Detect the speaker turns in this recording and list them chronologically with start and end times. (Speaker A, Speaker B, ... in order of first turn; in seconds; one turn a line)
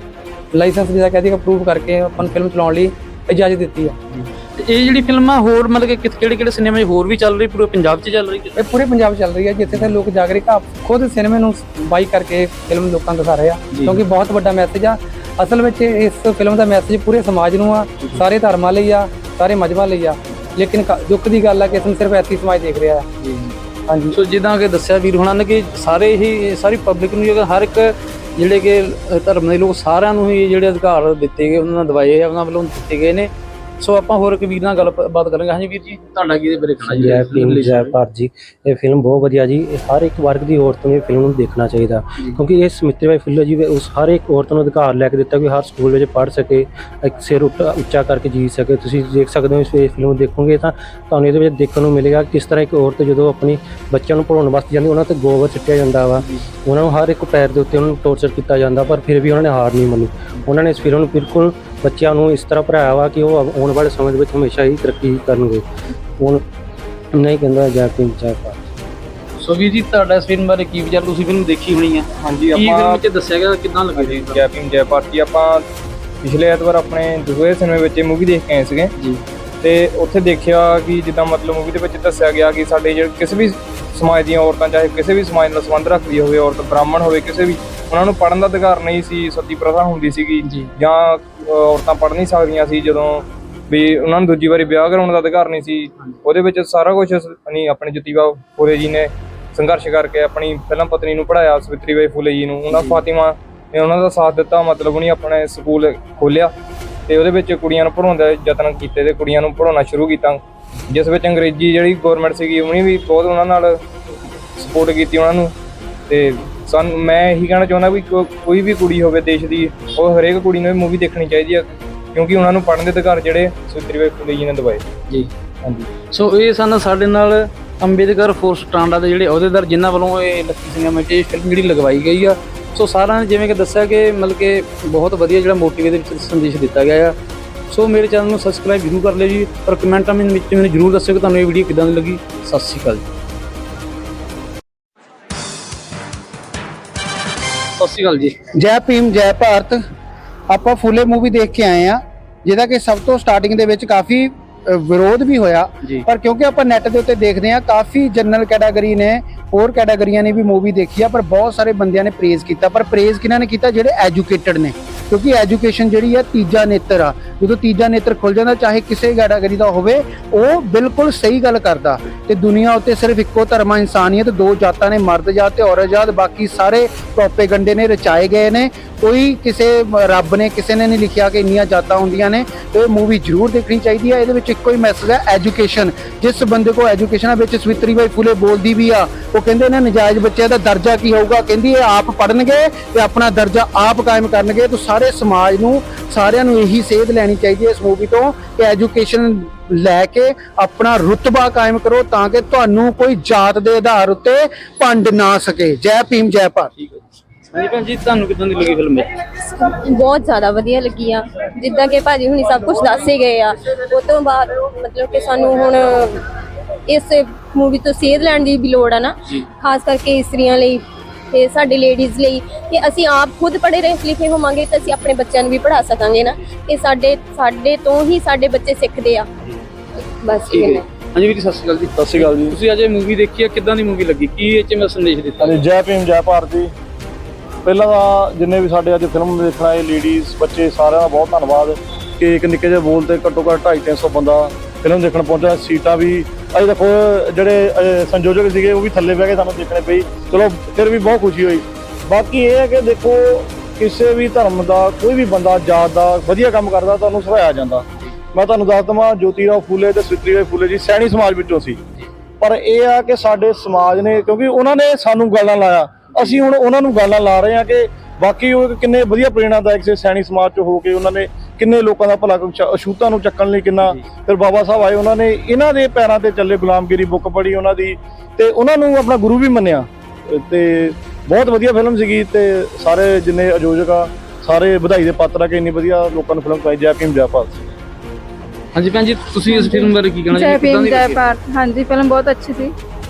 Speaker A: 0.5-4.0
Speaker B: 4.1-8.5
Speaker A: 8.5-23.1
Speaker B: 13.7-14.0
Speaker B: 23.2-23.6
Speaker A: 23.9-24.2
Speaker B: 24.1-37.9
Speaker C: 36.8-65.6
Speaker C: 67.2-68.6
Speaker B: 69.4-74.4
Speaker D: 72.2-73.0
Speaker D: 73.9-75.6
Speaker D: 76.2-78.9
Speaker D: 79.6-106.5
Speaker B: 90.4-90.7
Speaker B: 102.7-103.0
Speaker D: 107.1-113.8
Speaker D: 114.5-115.5
Speaker D: 116.1-124.8
Speaker B: 126.1-137.1
Speaker B: 137.7-143.0
Speaker B: 147.8-148.3
Speaker E: 148.5-149.8
Speaker E: 150.5-206.7
Speaker B: 206.8-209.1
Speaker F: 209.6-216.2
Speaker F: 216.9-229.3
Speaker F: 230.2-230.8
Speaker B: 230.5-235.6
Speaker G: 232.0-232.6
Speaker G: 235.4-236.7
Speaker G: 237.6-261.8
Speaker G: 262.4-287.7
Speaker B: 288.7-291.2
Speaker H: 289.4-292.7